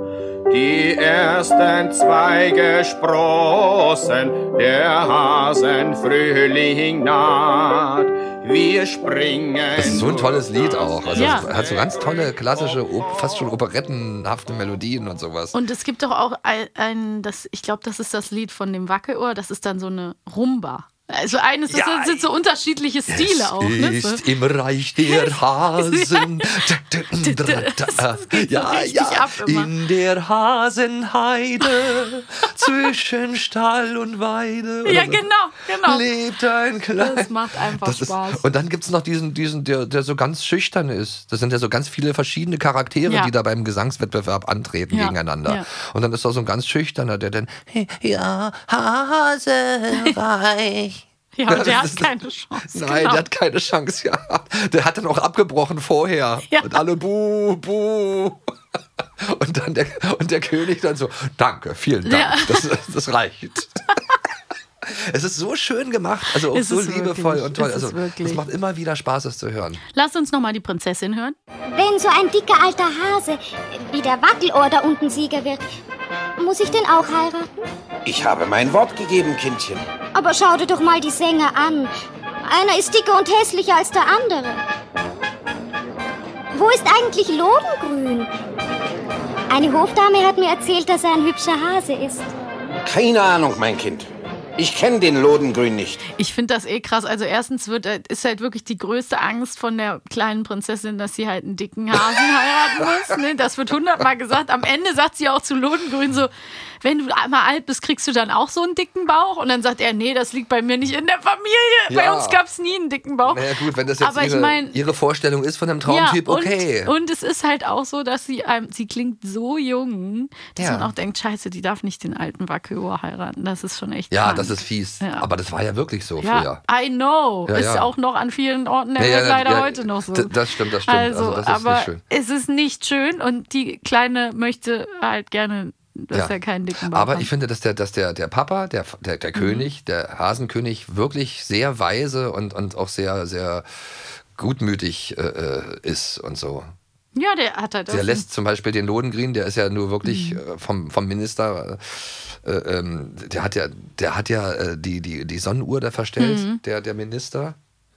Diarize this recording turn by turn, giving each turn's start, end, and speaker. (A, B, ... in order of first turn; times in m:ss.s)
0:00.5-0:13.4 A
0:09.8-0:15.6 B
0:11.1-0:11.5 C
0:15.5-0:24.2 C
0:21.7-0:22.2 B
0:23.1-0:35.2 B
0:25.1-0:26.6 C
0:27.2-0:29.7 C
0:31.6-0:32.1 C
0:34.8-0:36.0 C
0:35.8-0:52.1 B
0:37.0-0:38.4 C
0:43.0-0:43.3 C
0:44.9-0:45.6 C
0:51.3-0:53.2 C
0:52.6-0:58.5 B
0:56.5-0:56.8 C
0:59.2-1:03.8 B
1:02.0-1:02.7 C
1:04.8-1:09.8 B
1:06.5-1:08.4 C
1:09.9-1:11.3 C
1:11.7-1:15.6 D
1:16.4-1:17.7 D
1:18.0-1:19.8 E
1:20.1-1:21.9 D
1:22.5-1:24.6 D
1:26.5-1:28.3 D
1:29.5-1:32.3 D
1:32.8-1:34.1 E
1:34.6-1:36.0 E
1:36.2-1:46.3 C
1:46.8-1:53.4 C
1:51.9-1:52.4 B
1:53.2-1:56.9 B
1:54.0-1:54.8 C
1:55.8-2:05.3 C
2:00.6-2:00.9 B
2:04.1-2:06.6 B
2:06.2-2:17.3 C
2:07.5-2:07.9 B
2:09.0-2:12.0 B
2:16.9-2:23.6 B
2:19.3-2:19.7 C
2:24.3-2:26.7 B
2:27.1-2:28.3 C
2:27.9-2:37.6 B
2:30.0-2:30.4 C
2:36.2-2:36.6 C